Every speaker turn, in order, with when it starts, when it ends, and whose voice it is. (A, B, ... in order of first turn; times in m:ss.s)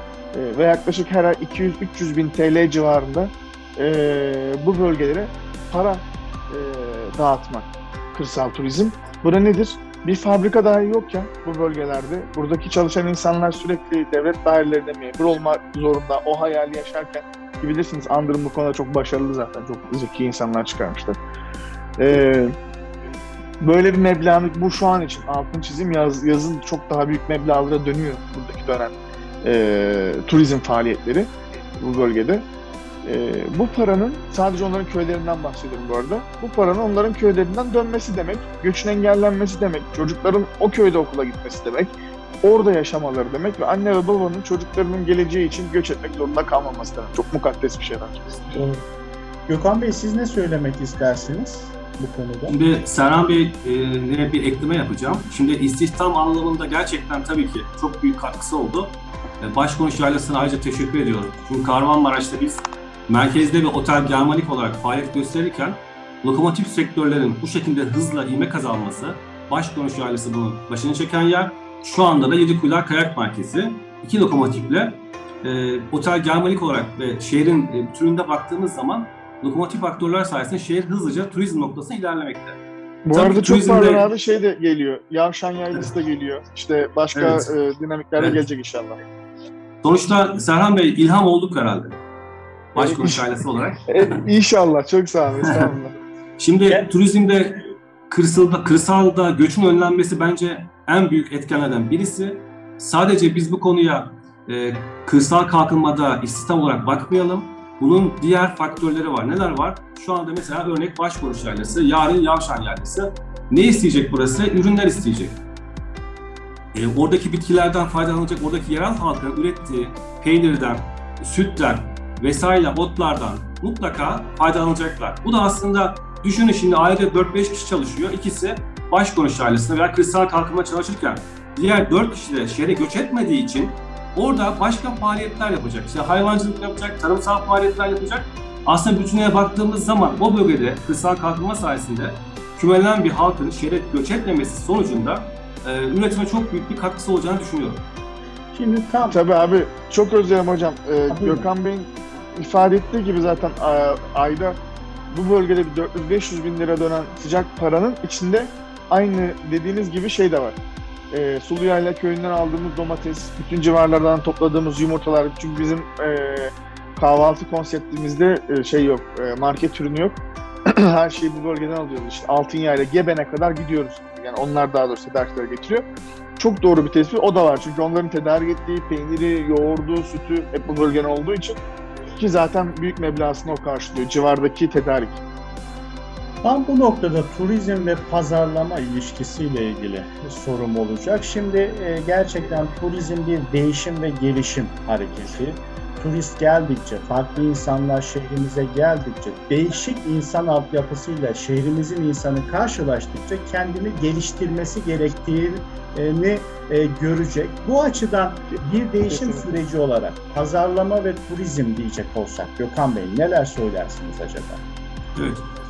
0:00.3-0:21.2 A
0:22.0-0:22.6 A
0:23.6-0:32.4 A
0:33.0-0:48.4 A
0:48.6-0:48.8 B
0:49.5-0:52.6 B
0:52.5-1:22.6 C
1:23.1-1:29.0 A
1:23.1-1:24.1 C
1:27.1-1:27.4 C
1:29.8-1:32.0 C
1:32.7-1:34.2 C
1:32.8-1:33.3 A
1:33.9-1:35.9 A
1:35.4-1:35.7 C
1:36.4-1:55.4 C
1:56.7-2:27.8 C
2:28.5-2:29.2 B
2:29.0-2:34.6 A
2:31.1-2:31.4 B
2:35.1-2:40.6 A
2:41.1-2:55.9 A
2:56.4-3:01.6 A
3:02.1-3:05.2 A
3:06.4-3:34.6 B
3:28.5-3:29.6 A
3:35.1-3:35.4 C